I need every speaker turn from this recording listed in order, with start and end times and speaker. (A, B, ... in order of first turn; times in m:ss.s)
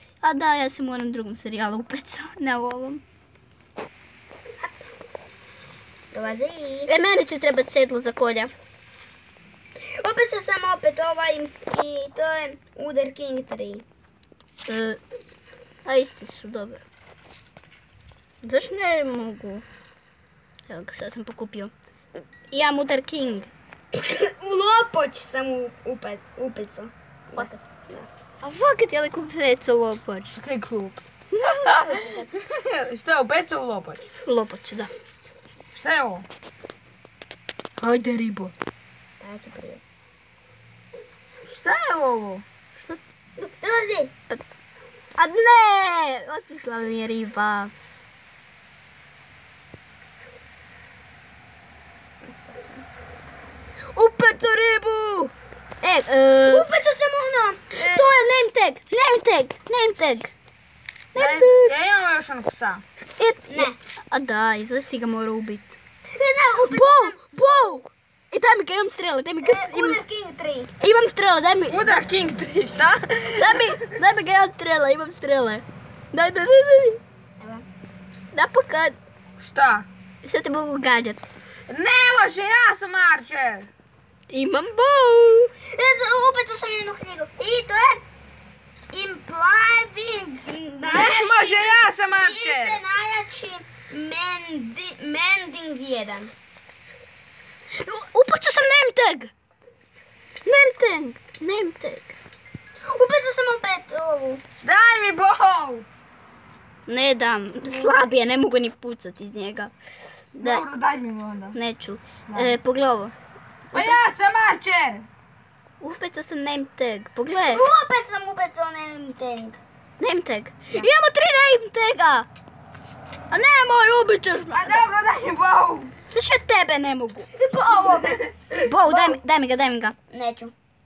0:00.2-0:03.0 A
0:06.1-0:06.9 B
0:06.9-0:08.5 A
0:10.0-0:13.8 B
0:14.6-0:15.0 A
0:15.8-0:16.8 A
0:18.4-0:19.6 A
0:20.7-0:21.7 A
0:22.5-0:23.5 A
0:23.9-0:28.1 B
0:27.3-0:27.6 A
0:28.4-0:30.3 A
0:30.3-0:34.0 C
0:31.3-0:31.7 A
0:31.8-0:32.3 B
0:34.2-0:34.9 A
0:35.7-0:36.2 C
0:37.8-0:38.5 A
0:39.2-0:39.8 B
0:41.5-0:42.4 C
0:43.4-0:44.1 B
0:45.2-0:47.7 A
0:52.2-0:52.8 B
0:53.9-0:55.3 C
0:55.8-0:56.7 A
0:56.4-0:58.1 B
0:57.8-1:00.3 A
1:01.1-1:01.7 A
1:01.2-1:02.8 C
1:03.2-1:05.8 A
1:03.5-1:03.8 B
1:06.1-1:07.2 B
1:06.6-1:10.0 A
1:09.4-1:10.7 B
1:10.8-1:11.9 A
1:11.7-1:13.9 C
1:13.4-1:17.0 A
1:17.4-1:17.6 B
1:18.3-1:19.0 A
1:19.4-1:19.9 C
1:20.2-1:21.2 A
1:21.7-1:23.7 C
1:24.3-1:25.5 A
1:25.7-1:28.0 B
1:28.9-1:36.3 B
1:30.8-1:32.8 C
1:37.8-1:39.3 A
1:40.4-1:42.2 A
1:42.9-1:44.4 B
1:44.6-1:45.8 C
1:46.9-1:49.7 A
1:50.3-1:50.6 A
1:50.4-1:51.6 C
1:51.5-1:53.1 A
1:52.3-1:52.6 C
1:53.7-1:55.0 C
1:53.7-1:54.0 A
1:55.8-1:57.7 A
1:57.3-1:59.6 B
2:00.0-2:02.3 A
2:03.3-2:04.8 A
2:04.5-2:05.9 C
2:06.1-2:07.3 A
2:07.4-2:08.1 B
2:07.6-2:09.2 C
2:08.6-2:10.0 A
2:10.1-2:10.5 B